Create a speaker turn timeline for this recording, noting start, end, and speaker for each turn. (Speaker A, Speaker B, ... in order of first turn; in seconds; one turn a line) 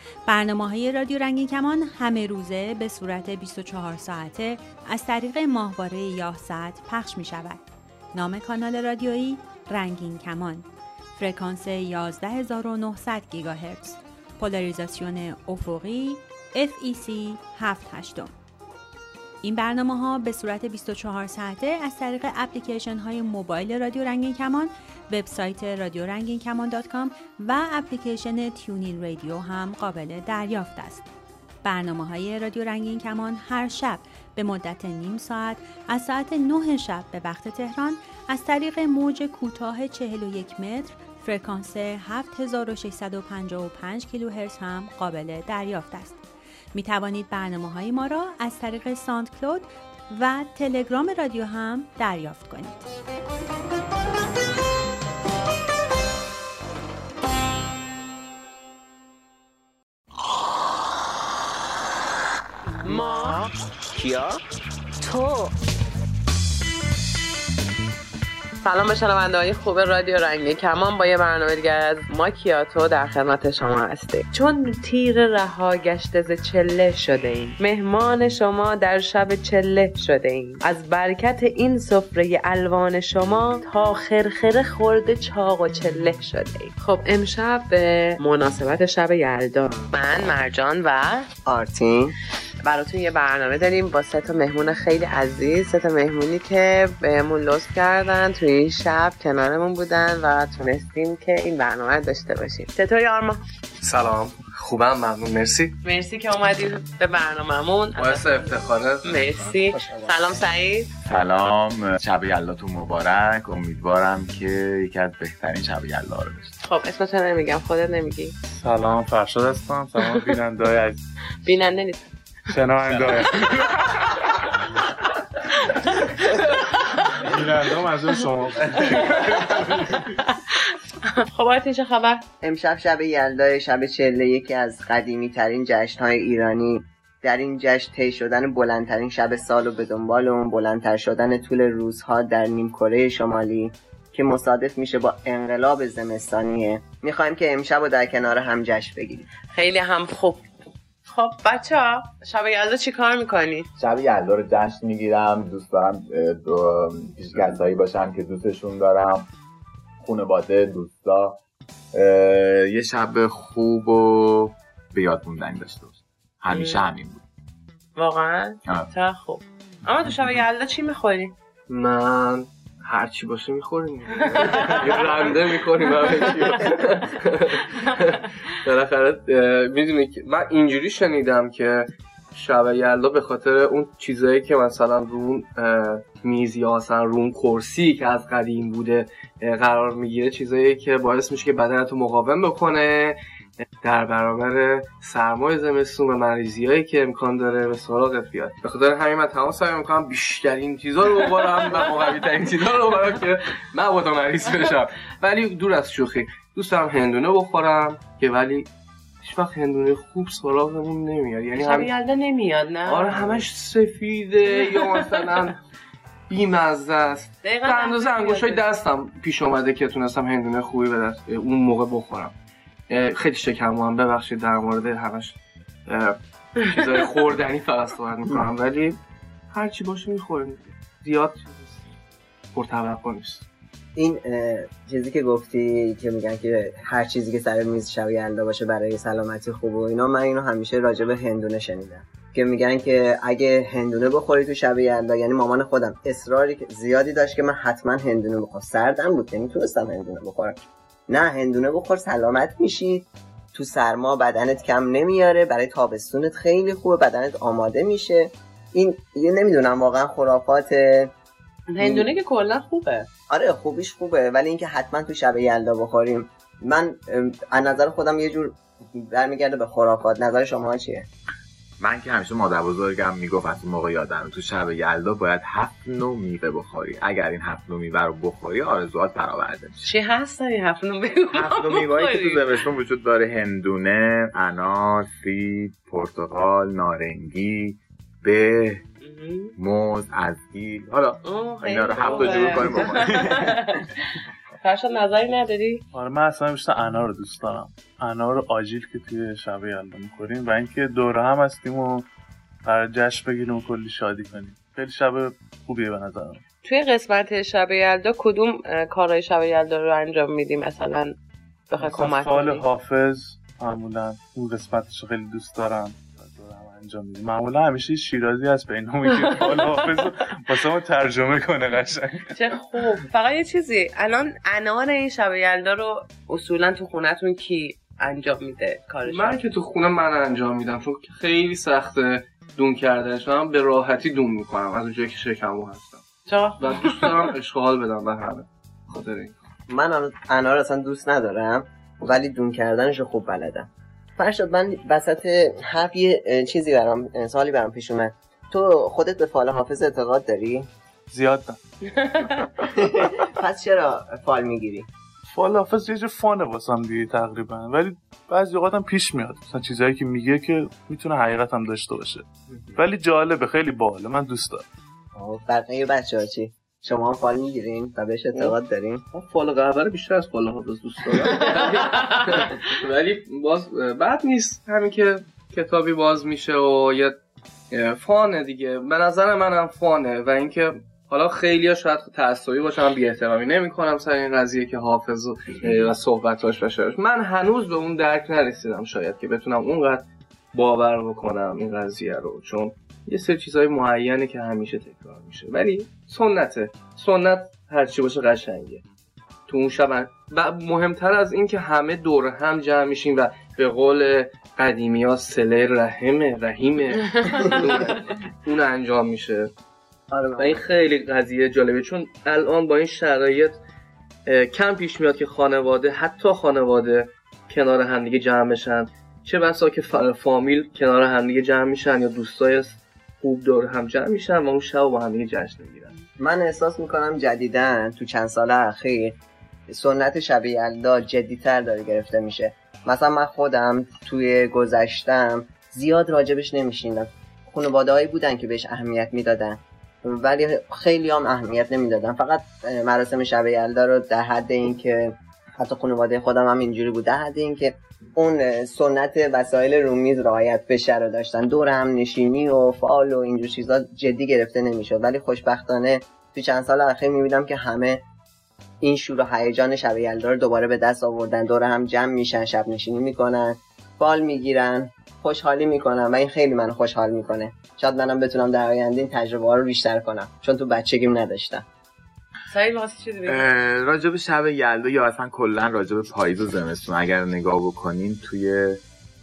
Speaker A: 0.3-7.6
Speaker A: 8.1-18.3
Speaker A: 19.4-31.0
Speaker A: 31.6-46.2
Speaker A: 46.7-52.9
Speaker B: 62.8-63.5
Speaker B: 65.1-65.5
Speaker B: 68.6-91.3
Speaker C: 91.5-92.2
Speaker B: 92.6-103.4
Speaker D: 103.8-105.8
Speaker B: 105.8-110.9
Speaker D: 108.0-109.6
Speaker E: 111.1-116.6
Speaker B: 116.6-118.3
Speaker F: 118.5-121.0
Speaker B: 121.5-122.0
Speaker F: 122.5-123.8
Speaker F: 127.2-129.7
Speaker B: 128.9-130.2
Speaker B: 131.0-132.2
Speaker C: 132.4-149.3
Speaker B: 149.5-150.5
Speaker B: 151.1-153.7
Speaker E: 153.8-159.3
Speaker E: 160.0-161.4
Speaker E: 161.9-167.2
Speaker B: 166.5-166.8
Speaker B: 168.0-171.3
Speaker D: 171.7-193.2
Speaker B: 174.4-175.2
Speaker B: 176.1-176.5
Speaker D: 193.8-208.7
Speaker D: 209.2-211.9
Speaker B: 211.6-213.5
Speaker D: 212.8-215.6
Speaker B: 214.5-215.2
Speaker D: 216.3-222.3
Speaker B: 217.4-218.7
Speaker D: 222.9-231.9
Speaker B: 226.8-227.1
Speaker D: 232.5-233.4
Speaker C: 234.0-261.1
Speaker B: 261.7-263.1
Speaker C: 261.8-262.1
Speaker C: 263.3-271.1
Speaker E: 271.8-279.9
Speaker B: 279.8-282.6
Speaker E: 281.3-288.9
Speaker B: 289.0-289.5
Speaker E: 289.6-293.6
Speaker B: 291.2-293.8
Speaker B: 294.6-295.8
Speaker F: 295.9-302.1
Speaker F: 302.6-306.4
Speaker B: 306.6-311.1
Speaker B: 311.7-312.6
Speaker F: 311.8-322.3
Speaker B: 319.1-319.9
Speaker B: 322.3-329.4
Speaker D: 329.1-336.0
Speaker B: 336.3-337.2
Speaker D: 336.6-339.4
Speaker C: 339.7-350.7
Speaker F: 351.1-351.6
Speaker B: 351.9-352.4
Speaker C: 352.8-354.9
Speaker F: 355.3-364.7
Speaker C: 365.1-369.0
Speaker D: 369.1-377.2
Speaker D: 377.7-398.8
Speaker D: 399.5-409.5
Speaker B: 407.1-408.0
Speaker C: 410.1-410.6
Speaker D: 410.4-413.6
Speaker D: 414.3-425.9
Speaker C: 426.2-429.2
Speaker C: 429.7-458.0
Speaker C: 458.8-471.7
Speaker B: 472.5-473.4
Speaker E: 473.3-478.8